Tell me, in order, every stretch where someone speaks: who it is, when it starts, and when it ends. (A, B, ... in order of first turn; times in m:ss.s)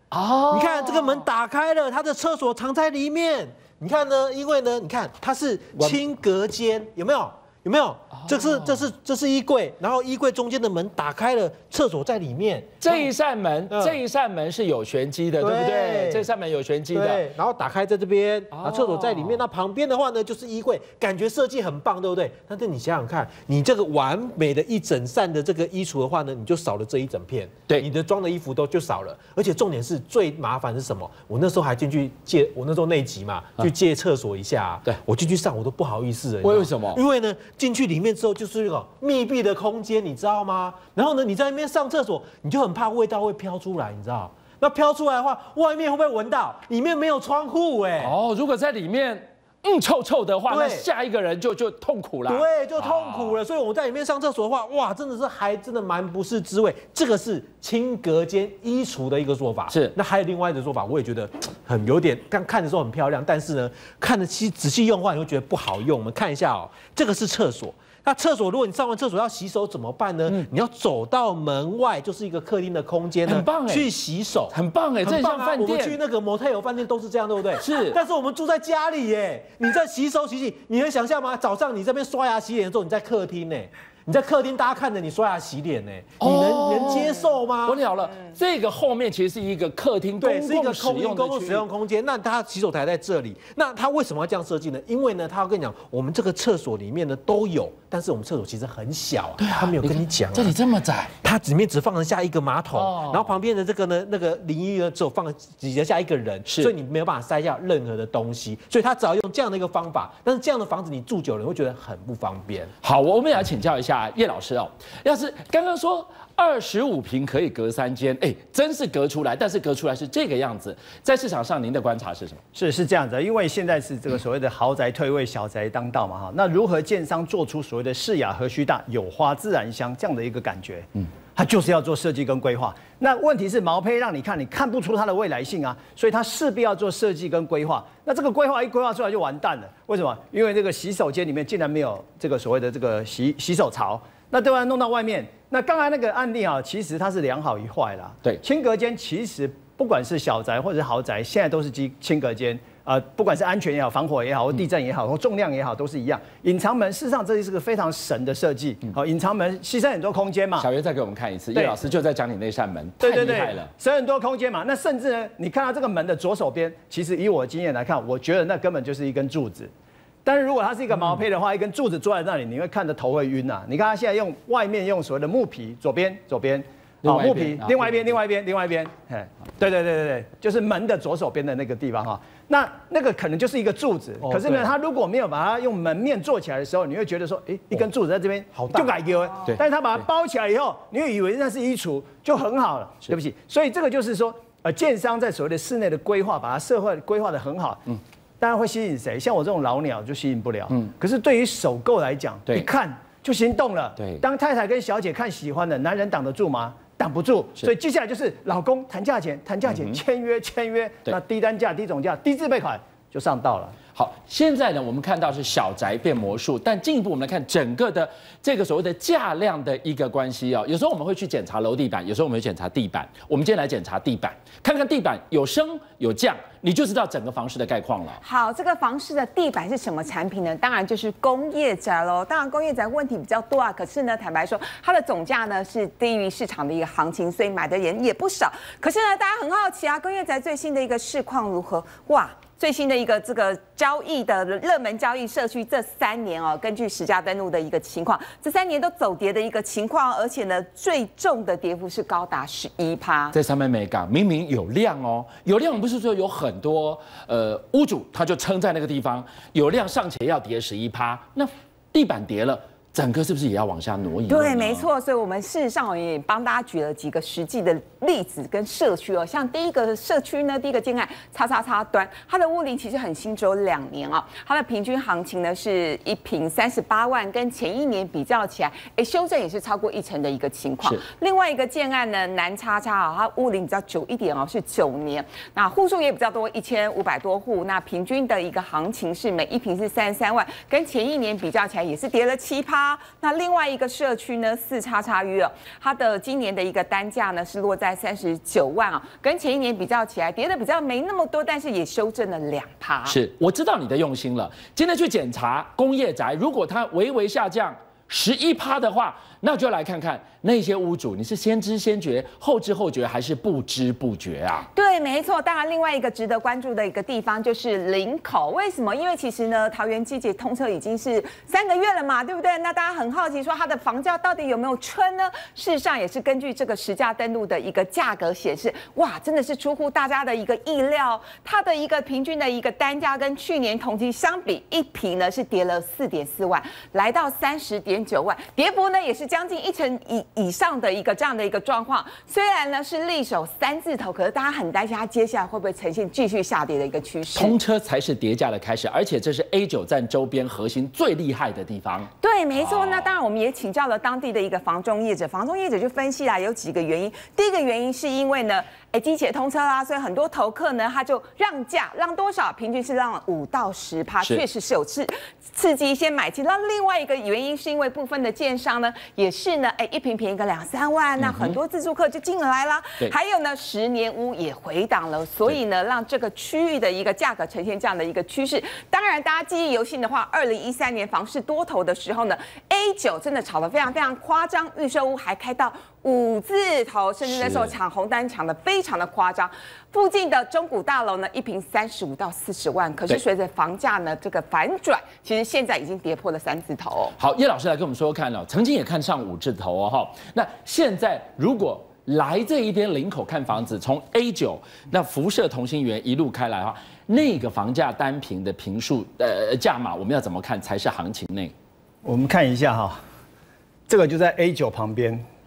0:00.1-0:01.2 A
0:00.5-0:13.1 B
0:08.1-0:08.9 A
0:12.8-0:17.2 A
0:13.7-0:14.0 B
0:15.4-0:16.2 B
0:16.9-0:48.1 B
0:18.5-0:19.4 A
0:36.4-0:37.0 A
0:48.0-0:53.4 A
0:50.5-0:50.9 B
0:52.3-1:27.8 B
1:13.2-1:13.9 A
1:14.5-1:16.0 A
1:17.6-1:18.0 A
1:26.2-1:31.6 A
1:30.2-1:40.5 B
1:39.4-1:41.1 A
1:41.2-1:52.7 B
1:42.7-1:43.3 A
1:46.4-1:46.7 A
1:52.8-2:02.4 A
2:02.5-2:40.7 C
2:40.6-2:43.7 A
2:43.0-2:49.7 C
2:50.2-3:33.8 C
2:57.0-2:58.1 A
3:04.2-3:04.7 B
3:08.6-3:09.0 B
3:24.0-3:24.2 A
3:29.6-3:30.0 A
3:33.9-3:48.2 A
3:48.2-4:13.3 D
4:13.3-4:24.9 A
4:24.3-5:03.2 D
5:03.0-5:14.7 A
5:14.7-5:47.5 D
5:47.3-5:53.1 A
5:52.2-6:37.1 D
6:11.2-6:11.6 A
6:27.2-6:27.7 A
6:37.2-6:51.5 A
6:52.0-6:53.0 C
6:53.9-6:55.2 C